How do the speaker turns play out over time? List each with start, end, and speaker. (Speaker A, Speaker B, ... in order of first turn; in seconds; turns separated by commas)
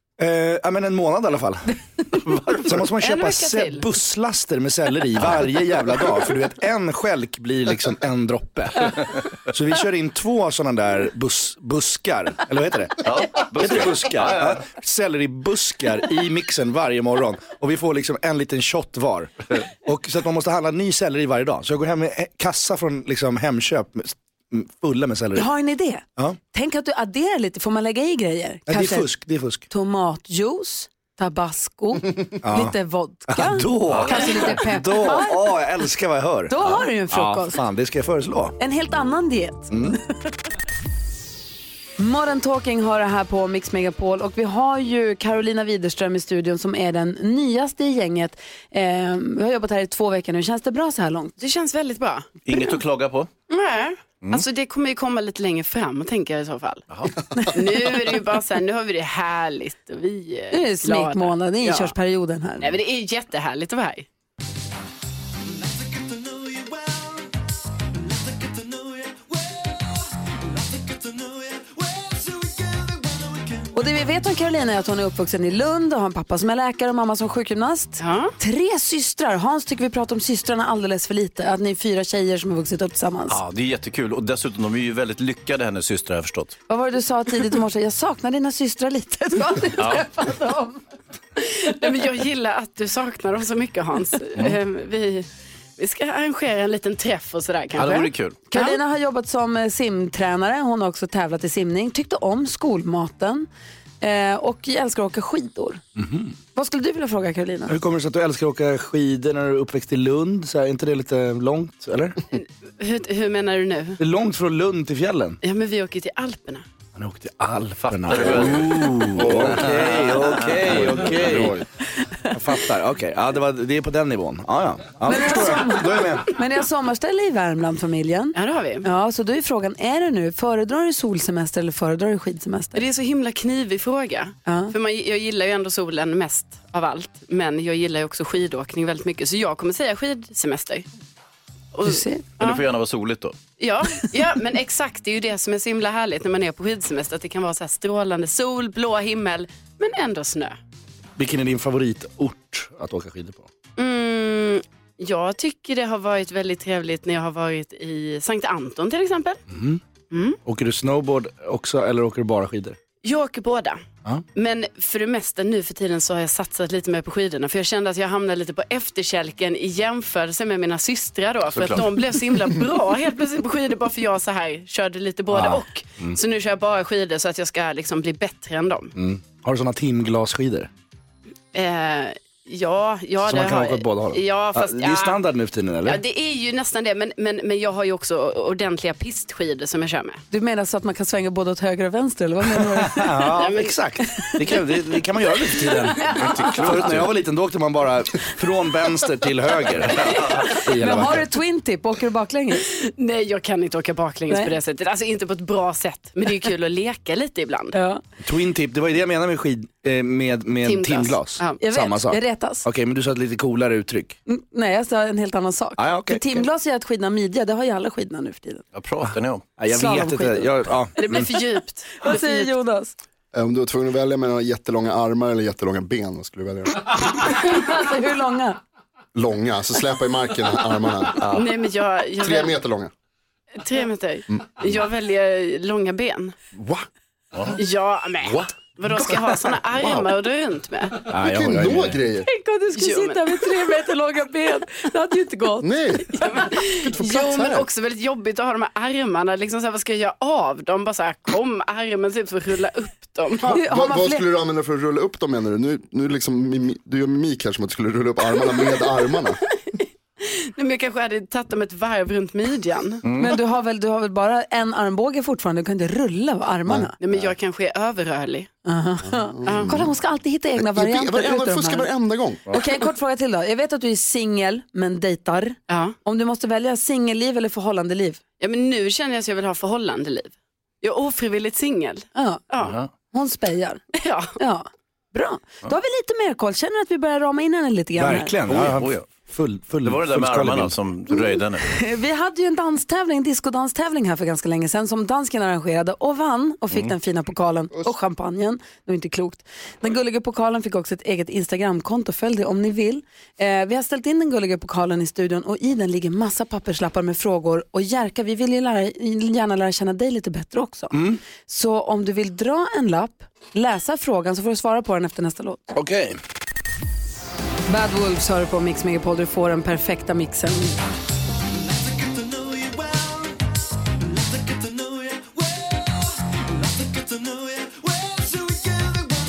Speaker A: 0.2-2.0, Speaker B: 2.2-2.9, Speaker A: 2.6-25.5, Speaker C: 3.0-3.9, Speaker B: 13.0-14.6, Speaker D: 25.3-29.1, Speaker A: 28.7-29.6, Speaker D: 29.7-35.5, Speaker A: 32.4-32.7, Speaker A: 33.3-38.5, Speaker B: 33.9-34.5, Speaker D: 36.5-37.6, Speaker D: 38.6-40.0, Speaker A: 39.7-40.0, Speaker D: 42.0-51.4, Speaker C: 51.4-52.4, Speaker B: 52.4-53.3, Speaker C: 53.5-61.9, Speaker D: 60.5-62.7, Speaker C: 62.6-64.0, Speaker B: 68.6-69.0, Speaker B: 71.0-72.9, Speaker D: 73.7-83.4, Speaker C: 78.0-78.3, Speaker B: 83.3-86.5, Speaker D: 86.7-90.8, Speaker B: 89.8-90.0, Speaker C: 91.4-98.8, Speaker B: 97.7-98.4, Speaker D: 98.5-103.5, Speaker D: 104.0-105.8, Speaker A: 106.0-106.3, Speaker D: 106.5-107.7, Speaker A: 107.7-112.2, Speaker C: 112.4-114.0, Speaker A: 114.0-115.4, Speaker C: 115.4-116.6, Speaker A: 117.0-121.6, Speaker B: 117.8-121.2, Speaker E: 119.2-119.9, Speaker E: 120.7-121.5, Speaker A: 122.3-126.3, Speaker D: 125.0-132.8, Speaker C: 128.3-128.9, Speaker C: 132.7-140.9, Speaker D: 134.4-134.7, Speaker C: 141.7-142.6, Speaker D: 141.8-142.2, Speaker B: 142.4-143.4, Speaker C: 143.6-150.6, Speaker A: 151.2-153.5, Speaker C: 153.8-159.4, Speaker A: 159.5-159.8, Speaker C: 160.1-160.4, Speaker A: 160.4-162.8, Speaker C: 163.0-163.8, Speaker C: 164.3-178.9, Speaker A: 175.3-176.1, Speaker A: 178.9-180.7, Speaker C: 181.5-185.2, Speaker A: 183.2-186.0, Speaker C: 185.8-190.2, Speaker D: 190.3-193.4, Speaker A: 192.6-201.3, Speaker C: 193.3-193.7, Speaker D: 195.6-196.9, Speaker B: 196.5-197.1, Speaker D: 200.5-202.7, Speaker C: 202.6-207.8, Speaker D: 204.3-204.6, Speaker D: 207.7-208.0, Speaker A: 208.2-214.2, Speaker C: 210.6-211.6, Speaker D: 211.6-212.7, Speaker D: 214.3-218.6, Speaker A: 215.8-216.5, Speaker B: 218.7-219.4, Speaker A: 219.6-221.2, Speaker D: 219.7-220.7, Speaker C: 221.0-222.5, Speaker D: 222.0-222.9, Speaker E: 223.3-226.9, Speaker D: 227.1-228.6, Speaker E: 229.2-231.3, Speaker C: 231.3-232.6, Speaker E: 232.2-232.9, Speaker C: 233.6-236.4, Speaker E: 236.6-236.8, Speaker C: 237.5-241.1, Speaker E: 239.7-240.1, Speaker A: 241.1-242.0, Speaker E: 241.2-242.3, Speaker D: 242.2-246.4, Speaker C: 242.7-243.4, Speaker E: 245.6-246.1, Speaker C: 246.2-253.7, Speaker E: 246.8-247.7, Speaker D: 253.4-254.3, Speaker E: 253.8-259.4, Speaker C: 258.3-263.1, Speaker D: 263.1-266.9, Speaker C: 267.0-268.5, Speaker D: 268.6-271.9, Speaker E: 269.4-269.9, Speaker C: 269.4-269.8, Speaker E: 270.6-272.5, Speaker D: 272.5-278.2, Speaker C: 275.7-275.9, Speaker C: 278.4-282.8, Speaker D: 282.1-282.4, Speaker B: 282.6-282.9, Speaker D: 283.1-283.8, Speaker C: 283.9-284.3, Speaker D: 284.4-288.4, Speaker A: 288.0-290.7, Speaker B: 288.5-289.1, Speaker B: 289.8-291.7, Speaker D: 291.6-315.7, Speaker A: 310.9-311.2, Speaker A: 315.7-316.2, Speaker D: 317.7-320.8, Speaker B: 324.8-325.2, Speaker B: 327.6-328.9